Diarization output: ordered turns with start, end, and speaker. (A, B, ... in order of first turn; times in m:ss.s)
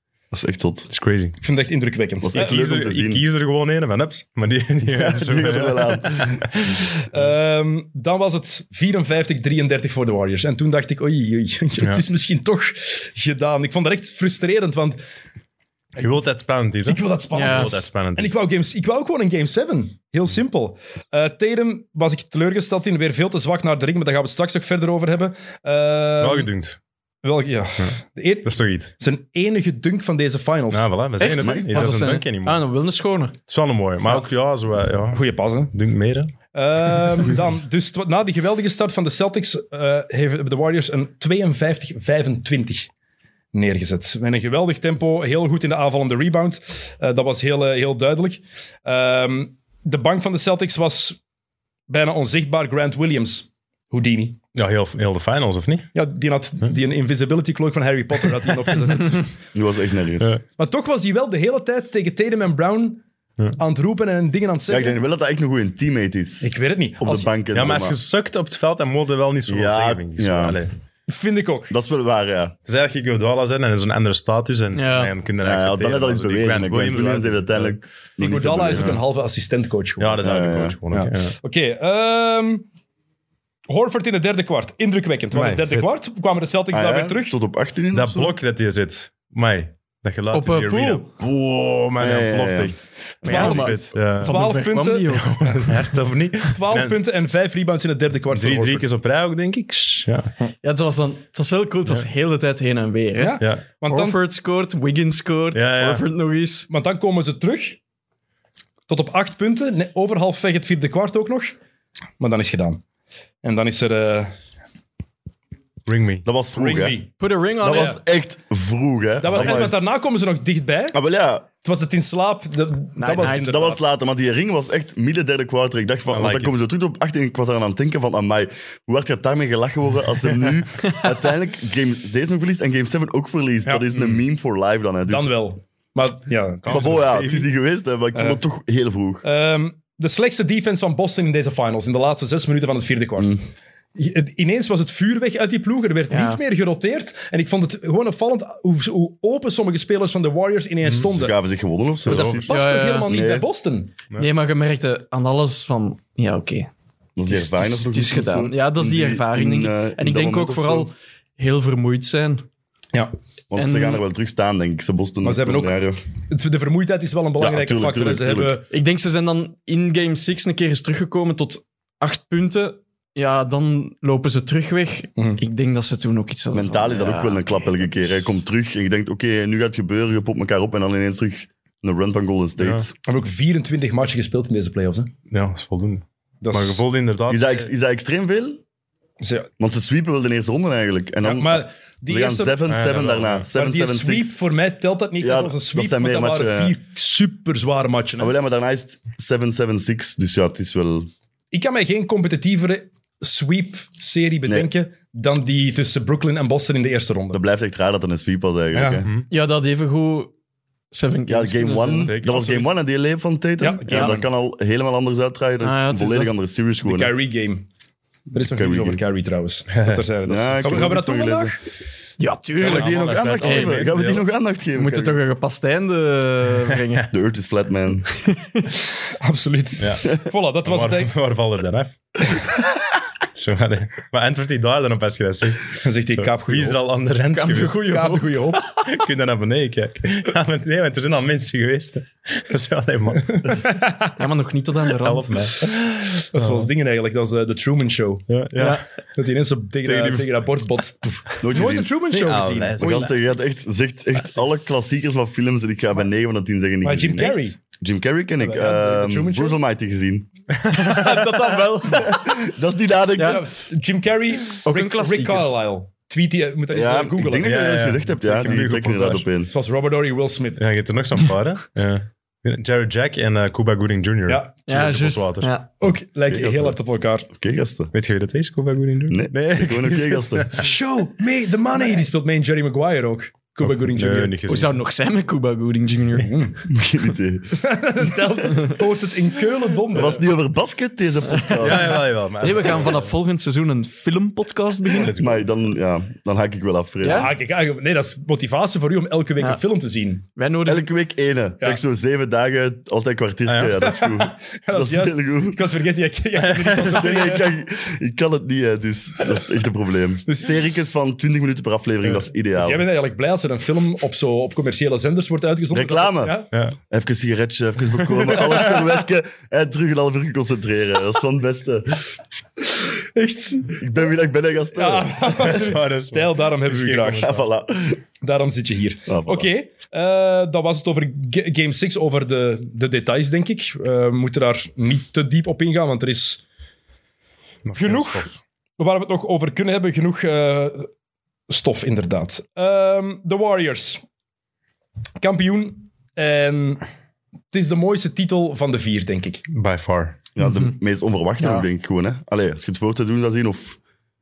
0:00.3-0:00.9 A
0:00.9-0:01.4 B
0:01.4-0:02.6 C
0:02.2-0:03.2 A
0:02.3-0:06.8 B
0:04.8-0:06.5 A
0:07.1-0:15.0 C
0:16.0-0:18.4 B
0:16.8-0:26.5 C
0:17.3-0:17.8 D
0:26.2-0:26.8 B
0:27.2-0:30.9 C
0:28.4-0:28.9 B
0:30.7-0:32.6 B
0:31.2-0:33.4 D
0:31.2-0:32.0 A
0:33.5-0:36.3 B
0:35.1-0:35.7 C
0:36.5-0:42.9 C
0:43.5-0:51.2 C
0:51.9-0:54.4 C
0:54.5-0:55.9 B
0:55.9-0:59.3 C
0:59.5-1:00.4 A
1:00.6-1:03.0 C
1:03.5-1:05.0 C
1:04.7-1:08.0 A
1:06.4-1:07.3 C
1:07.5-1:10.7 B
1:09.5-1:10.6 A
1:11.1-1:11.7 C
1:11.7-1:12.6 A
1:12.6-1:17.8 B
1:14.7-1:15.1 D
1:15.4-1:19.0 A
1:18.2-1:20.2 C
1:18.7-1:19.0 B
1:20.0-1:21.3 B
1:20.2-1:20.8 A
1:20.9-1:22.6 C
1:23.7-1:27.4 C
1:25.3-1:25.9 B
1:26.7-1:28.4 A
1:27.9-1:34.4 B
1:30.3-1:31.0 D
1:32.0-1:32.8 A
1:33.2-1:35.8 D
1:33.2-1:35.7 C
1:35.1-1:37.0 B
1:36.4-1:38.9 C
1:38.3-1:40.3 B
1:40.6-1:46.7 D
1:43.2-1:44.2 C
1:45.5-1:46.0 B
1:46.7-1:47.8 C
1:48.9-1:51.6 C
1:52.2-1:52.8 C
1:53.4-1:54.3 C
1:55.8-1:56.2 B
1:56.2-1:57.0 A
1:56.5-1:57.1 C
1:57.2-1:58.0 D
1:57.6-1:59.8 A
1:57.7-1:58.0 C
1:59.2-2:01.0 C
2:00.9-2:01.5 A
2:01.6-2:03.9 C
2:03.0-2:03.5 D
2:03.2-2:15.3 A
2:06.1-2:06.6 B
2:13.6-2:14.2 C
2:15.1-2:17.0 C
2:16.6-2:17.5 B
2:16.7-2:19.2 A
2:18.1-2:18.4 C
2:19.2-2:23.4 C
2:23.9-2:31.4 C
2:26.1-2:26.4 D
2:31.0-2:32.5 A
2:32.0-2:32.5 B
2:32.1-2:33.9 C
2:32.5-2:33.1 D
2:33.0-2:33.4 A
2:34.2-2:36.7 D
2:37.2-2:40.9 A
2:37.2-2:42.4 D
2:43.5-2:46.0 A
2:43.5-2:44.0 D
2:45.2-2:45.8 C
2:46.3-2:48.6 C
2:47.4-2:48.6 A
2:48.7-2:58.4 D
2:56.5-3:02.9 A
3:02.6-3:02.9 B
3:03.0-3:05.1 C
3:05.3-3:07.7 B
3:06.4-3:06.8 C
3:07.3-3:08.6 A
3:09.2-3:09.5 C
3:09.6-3:14.4 A
3:11.2-3:12.6 C
3:12.7-3:13.5 B
3:13.5-3:18.3 C
3:15.2-3:16.8 A
3:18.2-3:21.1 A
3:21.5-3:27.4 C
3:27.3-3:29.1 A
3:28.7-3:29.0 C
3:29.3-3:30.3 D
3:30.9-3:32.2 D
3:31.3-3:37.1 A
3:32.0-3:32.6 B
3:33.6-3:34.3 C
3:35.6-3:36.3 D
3:36.8-3:37.6 C
3:38.3-3:41.6 C
3:38.4-3:39.0 A
3:40.2-3:41.5 A
3:42.2-3:44.0 D
3:42.6-3:44.2 B
3:42.6-3:45.2 A
3:44.7-3:47.1 D
3:47.1-3:48.1 A
3:48.1-3:48.7 D
3:49.1-3:51.1 C
3:49.8-3:50.1 B
3:50.6-3:52.4 B
3:53.3-3:57.8 B
3:55.8-3:56.8 C
3:57.3-3:58.8 D
3:57.5-3:58.6 C
3:58.8-4:03.7 B
4:03.4-4:04.1 C
4:04.2-4:05.5 D
4:05.0-4:06.7 B
4:06.0-4:08.2 C
4:08.3-4:08.8 B
4:08.6-4:08.8 D
4:09.1-4:12.8 C
4:09.8-4:10.4 B
4:11.4-4:11.9 A
4:12.1-4:13.1 B
4:12.8-4:13.6 D
4:12.8-4:20.3 A
4:16.8-4:17.6 C
4:18.4-4:19.6 C
4:20.6-4:21.6 B
4:20.9-4:22.2 D
4:21.3-4:22.1 C
4:21.9-4:23.4 A
4:23.2-4:23.4 D
4:23.2-4:27.5 C
4:24.6-4:25.5 D
4:26.7-4:29.5 A
4:27.4-4:29.2 B
4:29.5-4:30.6 C
4:30.6-4:35.5 B
4:34.6-4:35.7 D
4:35.8-4:37.3 C
4:36.3-4:36.8 A
4:37.3-4:37.9 A
4:37.9-4:40.6 B
4:39.1-4:40.5 A
4:40.6-4:44.4 C
4:43.9-4:44.8 B
4:44.5-4:46.3 D
4:46.2-4:46.6 C
4:46.7-4:48.2 A
4:47.5-4:50.2 C
4:49.9-4:52.0 A
4:51.6-4:53.0 B
4:52.4-4:55.1 D
4:54.9-4:55.5 B
4:55.1-4:57.3 A
4:57.0-4:57.3 D
4:57.1-5:00.2 C
5:00.4-5:00.9 D
5:00.6-5:05.6 A
5:03.5-5:03.8 B
5:03.8-5:07.5 C
5:06.4-5:07.0 B
5:06.8-5:12.8 A
5:10.2-5:10.6 C
5:12.5-5:16.5 C
5:15.7-5:22.0 A
5:18.3-5:18.8 C
5:23.1-5:23.8 C
5:23.7-5:25.6 A
5:24.7-5:27.4 C
5:25.3-5:27.4 B
5:27.2-5:28.0 A
5:28.2-5:36.4 C
5:29.1-5:29.5 A
5:37.6-5:38.4 B
5:37.7-5:40.9 C
5:41.5-5:44.0 C
5:45.2-5:46.8 C
5:47.5-5:49.4 C
5:49.5-5:50.2 B
5:50.3-5:53.8 A
5:51.4-5:51.7 D